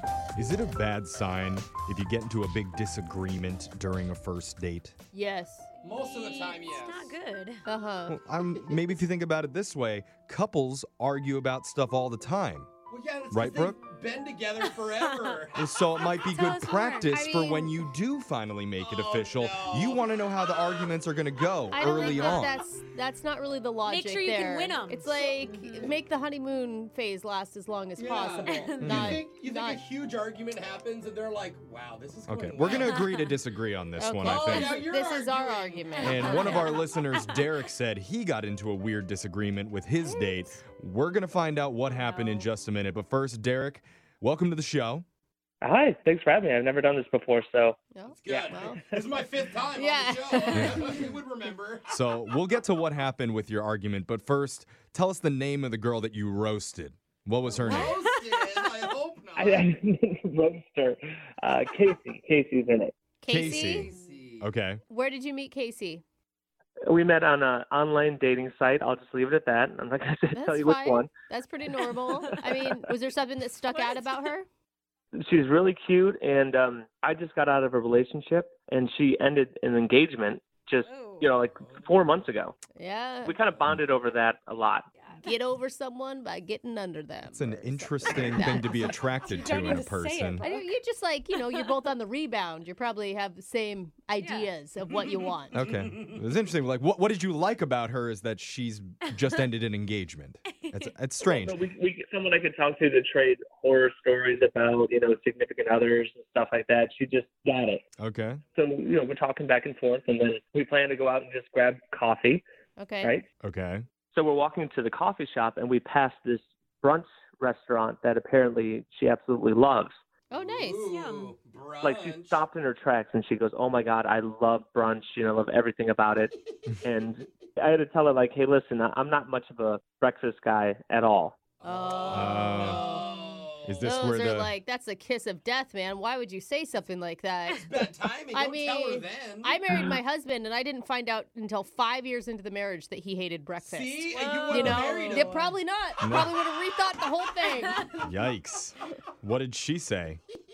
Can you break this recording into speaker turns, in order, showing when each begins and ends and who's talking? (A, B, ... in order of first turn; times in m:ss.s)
0:00.4-0:05.0 A
0:05.1-0:05.7 B
0:05.8-0:07.1 C
0:05.8-0:07.6 D
0:07.6-0:08.2 B
0:08.1-0:12.7 A
0:12.9-0:15.7 C
0:13.3-0:13.8 A
0:14.7-0:15.4 D
0:15.5-0:22.6 A
0:16.0-0:17.8 D
0:18.8-0:20.9 C
0:21.7-0:29.8 B
0:22.0-0:22.4 C
0:23.8-0:25.9 D
0:28.0-0:33.0 C
0:28.4-0:29.0 D
0:28.8-0:29.2 A
0:32.3-0:34.8 A
0:34.0-0:36.8 B
0:34.2-0:36.5 C
0:36.0-0:37.4 D
0:36.0-0:45.0 A
0:40.0-0:40.6 B
0:41.9-0:42.5 D
0:45.6-0:49.2 E
0:47.9-0:48.8 B
0:48.1-0:51.9 C
0:49.8-0:51.0 B
0:50.5-0:51.0 A
0:51.9-0:58.0 A
0:57.5-0:59.7 C
0:57.7-0:58.9 D
0:59.4-1:02.9 E
1:03.2-1:03.9 B
1:03.3-1:04.8 A
1:03.4-1:04.4 C
1:04.9-1:06.0 B
1:06.9-1:11.1 E
1:10.3-1:14.5 B
1:12.3-1:12.7 E
1:13.7-1:14.3 D
1:15.1-1:22.6 E
1:20.8-1:21.3 D
1:21.5-1:21.8 C
1:22.8-1:23.3 B
1:23.2-1:24.8 E
1:25.0-1:25.3 D
1:25.2-1:28.8 B
1:27.3-1:30.4 A
1:29.4-1:30.8 D
1:30.4-1:35.6 B
1:31.3-1:31.7 D
1:34.2-1:34.5 D
1:35.0-1:36.1 C
1:35.5-1:41.6 A
1:40.5-1:40.9 D
1:41.2-1:47.8 E
1:48.0-1:48.4 A
1:48.5-1:52.4 E
1:52.8-1:53.1 B
1:53.0-1:53.2 E
1:53.4-1:53.8 A
1:54.1-2:00.0 E
2:00.3-2:00.8 B
2:00.3-2:02.4 C
2:00.8-2:01.3 D
2:01.8-2:11.4 E
2:11.6-2:13.9 C
2:11.6-2:13.1 B
2:12.1-2:12.9 A
2:13.7-2:14.5 A
2:13.8-2:17.7 B
2:17.6-2:19.6 C
2:18.3-2:27.8 B
2:23.6-2:25.6 C
2:24.1-2:25.3 D
2:24.6-2:24.9 A
2:26.0-2:26.4 A
2:28.0-2:30.2 A